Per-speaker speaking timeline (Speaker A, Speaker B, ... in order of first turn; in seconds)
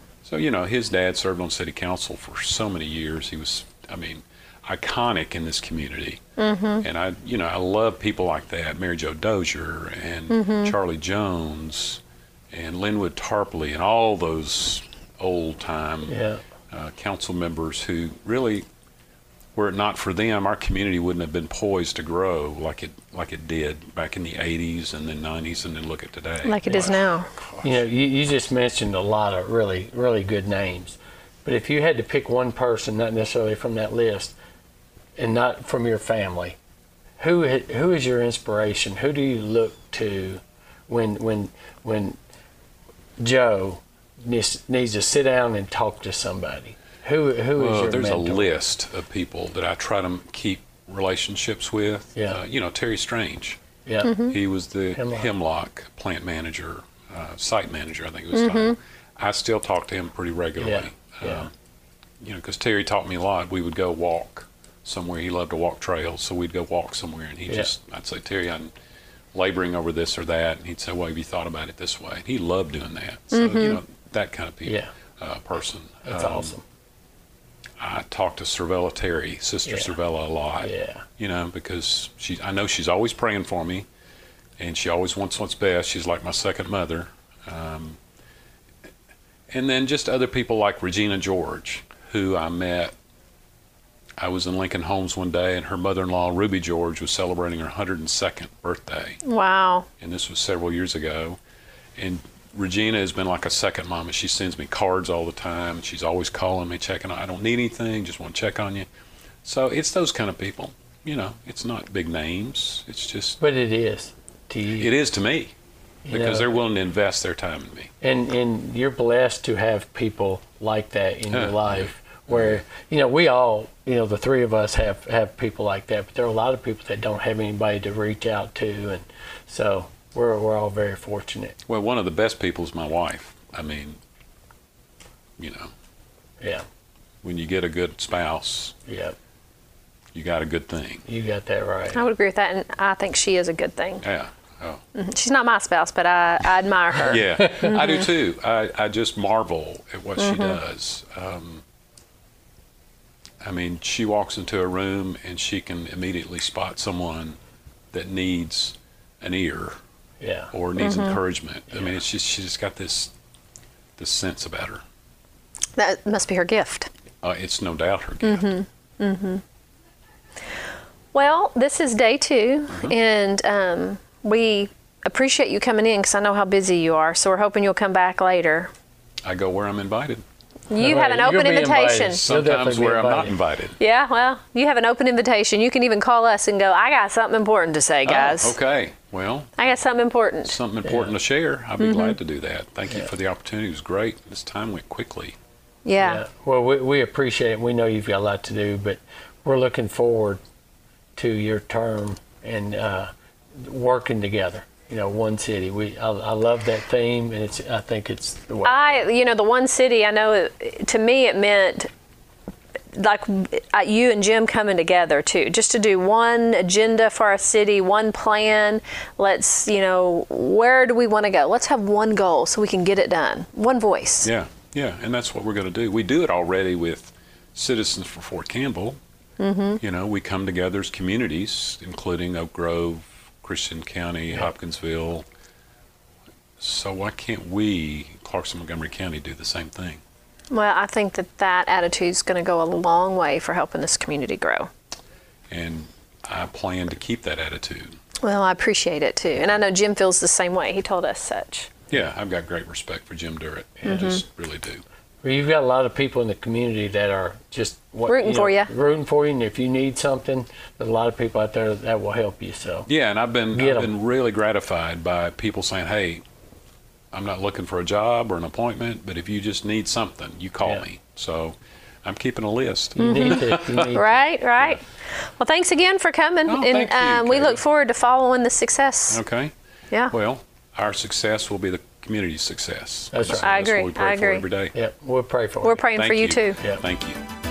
Speaker A: 0.2-6.2, 6.8-16.2, 16.7-18.6, 19.5-27.0, 47.5-53.6, 54.2-61.5, 62.2-68.7, 69.3-76.5, 77.8-83.8, 84.6-88.0, 89.5-92.9, 94.2-99.2, 100.0-101.4, 102.0-108.9, 109.4-113.4, 114.7-115.5, 116.1-117.9, 121.3-122.6, 131.7-134.0, 135.4-135.7, 137.2-138.8, 140.1-141.1, 144.0-144.8, 147.1-151.6, 153.4-157.4, 157.9-159.8, 160.5-163.1, 164.0-164.8, 167.2-168.5, 179.2-180.2, 182.1-183.8, 188.0-189.6, 190.4-195.3, 224.2-229.0, 229.8-235.2, 236.6-240.0, 245.5-248.0, 251.9-254.8, 262.9-266.2, 267.1-273.9, 276.5-277.6, 279.1-279.5, 280.1-284.7, 285.9-287.2
Speaker B: 6.4-6.8, 10.3-10.7, 26.4-27.3, 54.0-54.4, 58.3-58.7, 73.3-73.8, 99.2-99.9, 141.9-144.0, 144.9-148.1, 150.2-150.6, 160.8-161.2, 165.8-166.9, 168.2-169.4, 171.1-178.7, 180.7-182.2, 183.8-188.6, 189.6-190.6, 191.8-192.2, 195.8-196.2, 208.6-211.9, 212.9-224.3, 229.4-229.8, 240.5-244.7, 248.2-251.7, 253.8-254.2, 258.1-258.7, 273.0-279.2, 283.4-284.4, 285.6-286.6
Speaker C: 16.1-16.4, 27.6-34.3, 35.1-36.6, 37.2-42.2, 43.2-48.5, 53.9-54.1, 54.9-55.3, 60.6-61.5, 74.6-74.9, 76.0-76.6, 79.7-79.9, 80.6-81.0, 113.4-114.9, 116.0-116.5, 118.0-131.6, 136.4-136.6, 138.8-139.2, 141.1-142.0, 160.2-160.5, 180.7-183.4, 190.8-191.1, 196.0-200.4, 201.1-209.0, 253.8-254.1, 255.2-262.9, 263.5-263.9, 272.9-274.2, 283.1-283.6, 284.7-285.8